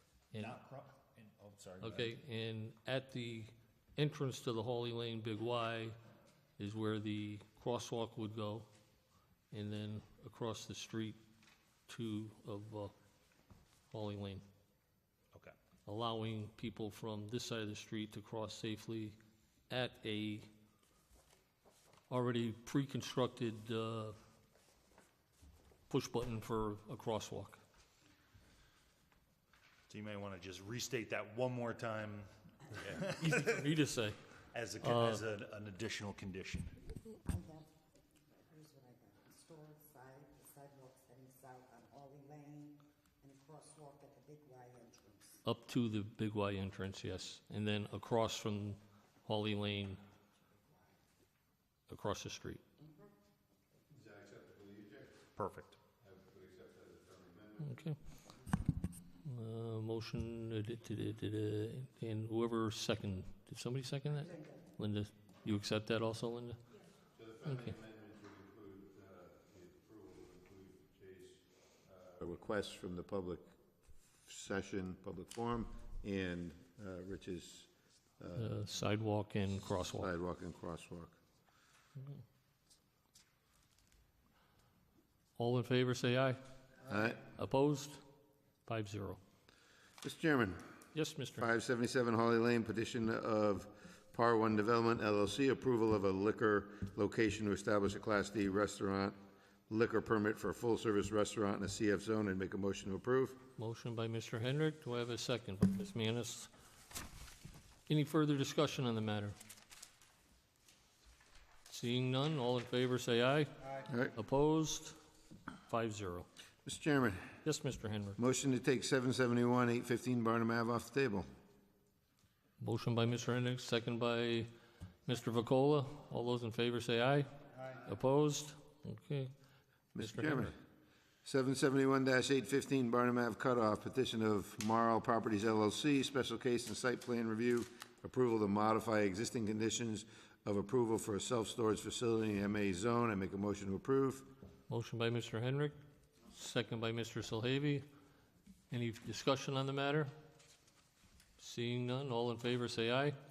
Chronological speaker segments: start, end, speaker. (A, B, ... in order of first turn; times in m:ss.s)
0:00.3-0:00.6 A
0:00.3-0:02.1 B
0:01.8-0:06.0 A
0:06.6-0:08.7 A
0:09.5-0:11.2 A
0:11.9-0:12.9 A
0:13.9-0:14.4 A
0:15.8-0:19.2 A
0:19.7-0:20.5 A
0:22.1-0:24.2 A
0:25.9-0:27.6 A
0:29.9-0:33.6 B
0:33.2-0:34.2 A
0:34.5-0:36.8 B
0:34.8-0:35.2 A
0:37.2-0:37.7 C
0:38.3-0:45.4 C
0:45.4-0:50.0 A
0:50.5-0:50.9 C
0:51.9-0:52.6 A
0:53.9-0:55.1 D
0:55.4-0:55.8 B
0:56.0-0:57.9 D
0:57.6-0:58.0 A
0:59.2-1:06.6 A
1:04.2-1:04.6 C
1:07.1-1:13.5 D
1:14.2-1:18.5 D
1:18.4-1:20.1 A
1:20.0-1:21.2 D
1:25.4-1:26.4 A
1:26.8-1:27.2 D
1:27.4-1:28.0 A
1:28.6-1:29.2 A
1:30.0-1:30.6 D
1:30.9-1:31.5 A
1:31.4-1:39.2 D
1:39.7-1:43.4 D
1:43.6-1:46.5 A
1:47.9-1:49.4 A
1:51.7-1:54.9 A
1:55.7-1:56.3 A
1:56.6-1:57.3 D
1:57.4-1:58.2 A
1:58.2-2:01.2 D
2:02.6-2:04.5 A
2:05.0-2:09.3 A
2:09.9-2:10.6 D
2:10.0-2:10.5 A
2:11.2-2:24.3 D
2:24.7-2:25.8 A
2:26.3-2:27.8 A
2:28.7-2:30.1 A
2:31.4-2:33.2 A